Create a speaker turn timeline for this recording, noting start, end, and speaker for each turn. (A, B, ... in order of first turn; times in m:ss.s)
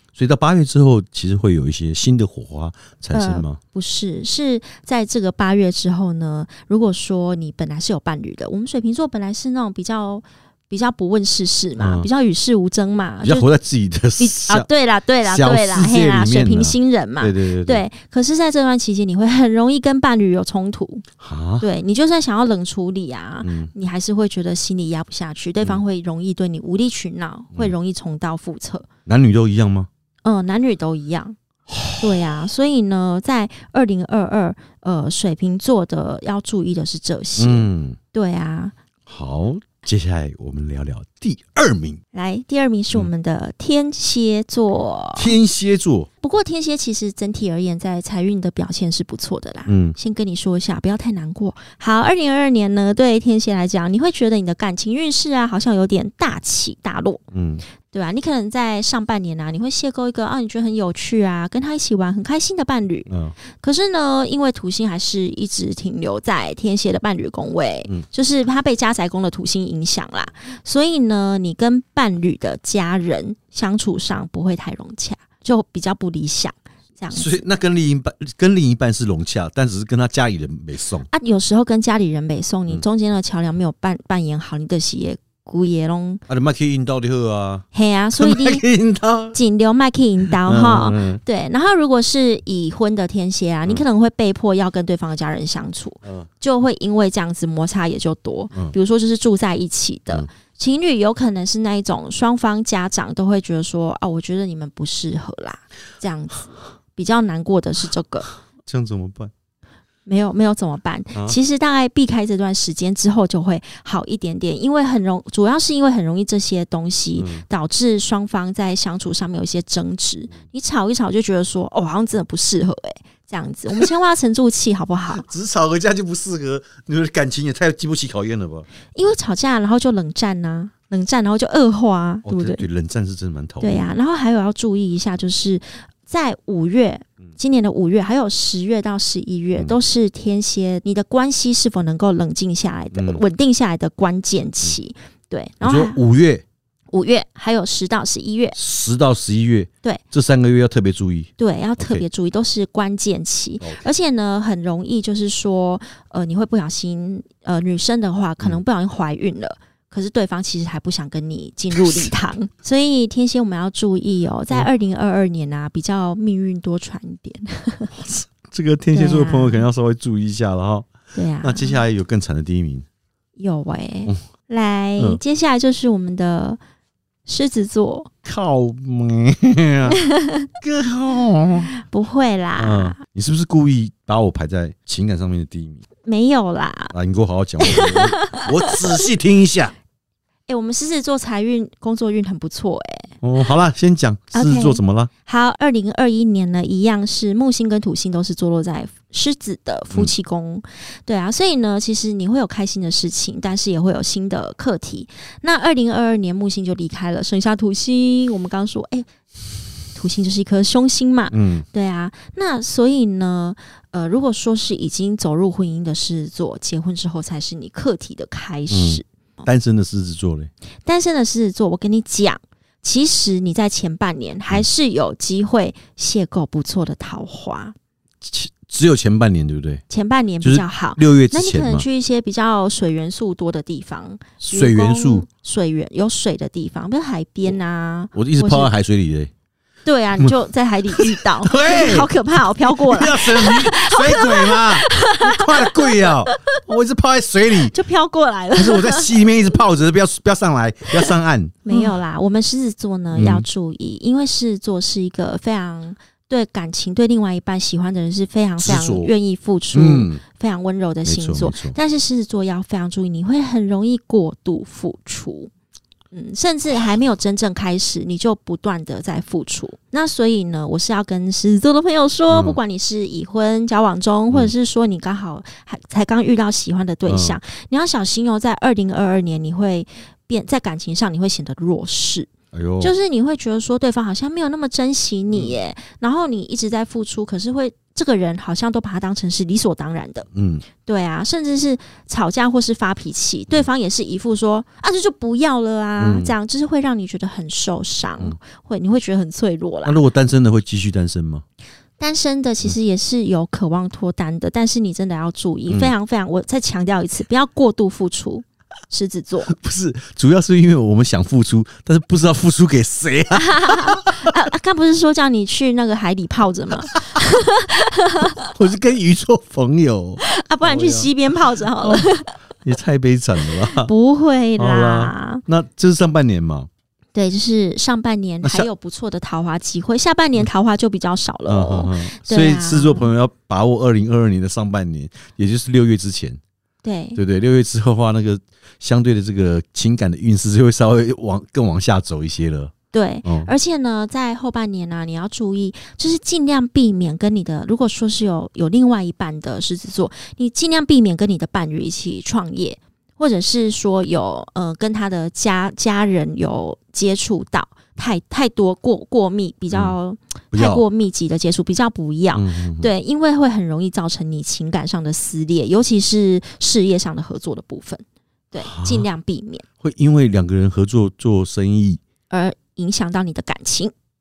0:00.2-0:03.6 A
0:03.1-0:13.5 B
0:11.8-0:12.1 A
0:13.2-0:14.7 A
0:14.2-0:21.0 B
0:15.2-0:17.8 A
0:21.2-0:21.6 A
0:21.6-0:28.8 B
0:23.4-0:23.7 A
0:29.0-0:29.9 A
0:30.2-0:31.4 B
0:31.7-0:32.2 A
0:31.9-0:38.7 B
0:37.4-0:38.0 A
0:39.1-0:42.0 A
0:42.1-0:45.4 B
0:45.2-0:46.1 A
0:46.2-0:57.2 B
0:49.6-0:50.0 A
0:57.3-0:57.6 A
0:57.8-1:17.4 B
1:03.1-1:03.4 A
1:17.1-1:21.1 A
1:21.1-1:26.2 B
1:26.3-1:29.4 A
1:27.7-1:28.6 B
1:29.3-1:48.3 B
1:30.4-1:31.2 A
1:48.6-1:49.3 A
1:50.0-2:05.2 B
1:57.1-1:57.4 A
2:05.1-2:08.6 A
2:08.9-2:12.6 B
2:12.2-2:13.9 A
2:13.6-2:26.0 B
2:22.9-2:23.2 A
2:25.6-2:26.4 A
2:26.9-2:28.6 B
2:28.5-2:32.0 A
2:31.4-2:47.9 B
2:33.6-2:33.8 A
2:41.7-2:42.1 A
2:47.9-2:50.9 A
2:48.9-2:49.6 B
2:51.1-2:51.8 B
2:51.4-2:52.8 A
2:53.4-2:56.6 B
2:57.2-2:58.1 B
2:58.2-3:00.0 A
3:00.1-3:00.4 B
3:00.6-3:01.7 A
3:01.7-3:03.0 B
3:02.6-3:05.8 A
3:06.0-3:06.9 B
3:06.9-3:09.7 A
3:07.6-3:09.1 B
3:10.5-3:13.2 B
3:13.2-3:15.1 A
3:14.3-3:29.1 B
3:29.8-3:39.4 B
3:31.3-3:31.6 A
3:38.7-3:40.5 A
3:40.8-3:47.7 B
3:48.2-3:49.8 A
3:49.9-3:58.7 B
3:50.4-3:51.9 A
3:54.5-3:55.2 A
3:58.1-3:59.3 A
3:59.8-4:06.6 B
4:00.9-4:07.7 A
4:07.6-4:09.1 B
4:08.5-4:12.0 A
4:11.7-4:25.5 B
4:13.1-4:13.4 A
4:18.6-4:19.1 A
4:19.7-4:20.2 A
4:21.0-4:21.8 A
4:26.1-4:50.3 B
4:32.3-4:32.6 A
4:37.0-4:37.4 A
4:42.5-4:42.9 A
4:50.3-4:50.6 A
4:50.8-5:00.0 B
4:56.0-4:56.3 A
4:59.8-5:01.4 A
5:02.0-5:09.5 B
5:05.7-5:05.9 A
5:09.5-5:14.3 A
5:13.3-5:18.5 B
5:18.3-5:21.1 A
5:20.2-5:22.3 B
5:21.8-5:23.9 A
5:23.7-5:25.4 B
5:24.6-5:26.7 A
5:27.1-5:33.1 B
5:28.4-5:28.7 A
5:31.5-5:36.4 A
5:36.8-5:37.2 B
5:37.2-5:42.7 A
5:42.9-6:09.6 B
5:43.2-5:43.5 A
5:59.7-6:00.0 A
6:00.5-6:00.8 A
6:02.3-6:02.9 A
6:08.6-6:09.1 A
6:09.8-6:12.0 A
6:12.3-6:13.9 B